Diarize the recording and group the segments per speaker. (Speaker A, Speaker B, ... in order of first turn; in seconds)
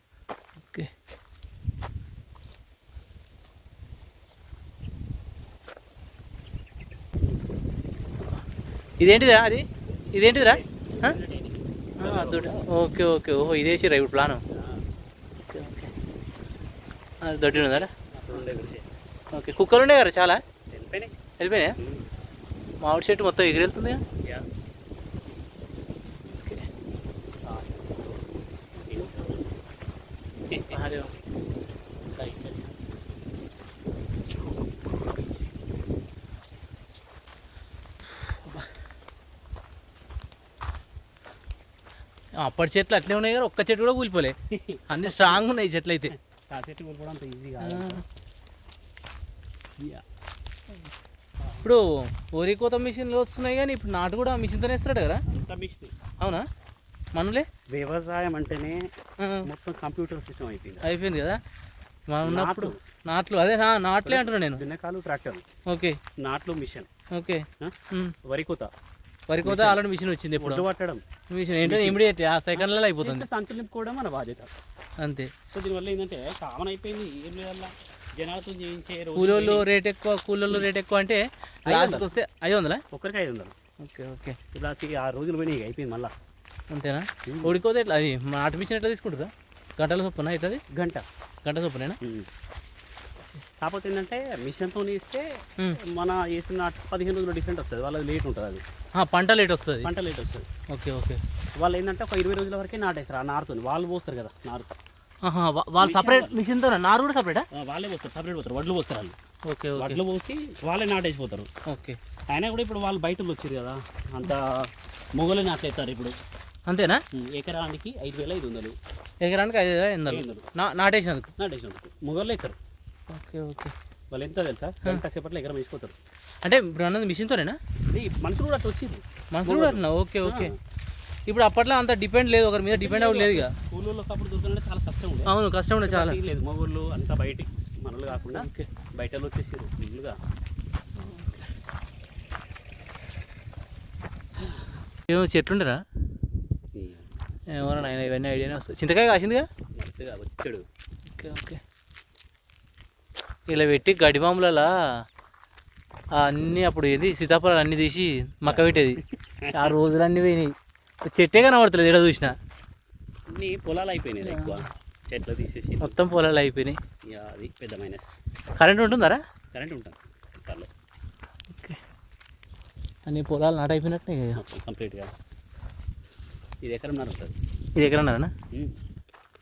Speaker A: 0.6-0.9, 9.0-11.2, 12.0-14.4, 15.5-15.9, 17.2-17.9, 19.3-20.4, 21.4-21.8, 22.8-24.0, 26.4-26.6, 30.7-31.1, 32.2-32.5, 38.2-38.7, 42.4-44.4, 44.9-46.1, 47.6-48.0, 51.6-55.2, 56.2-56.5, 57.2-57.5, 59.2-59.5, 60.8-61.4, 62.1-64.6, 65.7-66.0, 67.1-68.2, 69.3-70.7, 71.3-73.3, 75.0-75.3, 79.2-82.8, 83.8-84.4, 86.7-90.6, 91.4-92.0, 99.0-99.9, 100.7-101.2, 105.2-107.5, 109.5-110.0, 111.7-112.0, 116.7-117.0, 119.2-121.3, 123.1-123.7, 126.4-127.6, 129.3-130.5, 131.3-133.5, 135.3-136.2, 138.2-138.7, 145.1-145.8, 147.5-149.5, 151.1-151.6, 153.5-154.7, 156.2-162.4, 164.2-164.6, 165.8-166.8, 168.6-169.2, 171.5-171.8, 173.1-174.4, 177.8-178.3
Speaker B: 10.4-12.7, 14.5-14.8, 17.5-18.9, 20.7-21.1, 21.8-22.0, 27.5-28.2, 28.8-29.5, 30.5-30.8, 44.5-45.4, 46.3-48.0, 49.8-50.0, 51.4-51.7, 55.3-55.9, 57.7-58.8, 59.4-60.9, 62.2-62.8, 64.0-65.5, 66.2-66.9, 67.6-68.7, 69.4-69.8, 70.4-71.0, 71.6-72.0, 72.6-74.5, 75.5-79.7, 81.7-82.1, 82.9-83.5, 84.5-86.1, 87.3-87.6, 90.7-91.0, 92.0-92.3, 93.6-98.6, 99.8-100.5, 101.6-104.7, 105.8-106.4, 107.5-109.2, 109.8-111.5, 112.3-116.2, 117.1-118.8, 120.1-120.5, 121.4-122.6, 124.1-126.0, 127.9-130.6, 132.7-140.2, 146.8-147.1, 147.6-147.9, 149.8-150.7, 158.5-159.8, 163.3-166.0, 167.1-168.1, 169.5-170.7, 174.4-175.1, 176.6-177.3, 178.5-178.8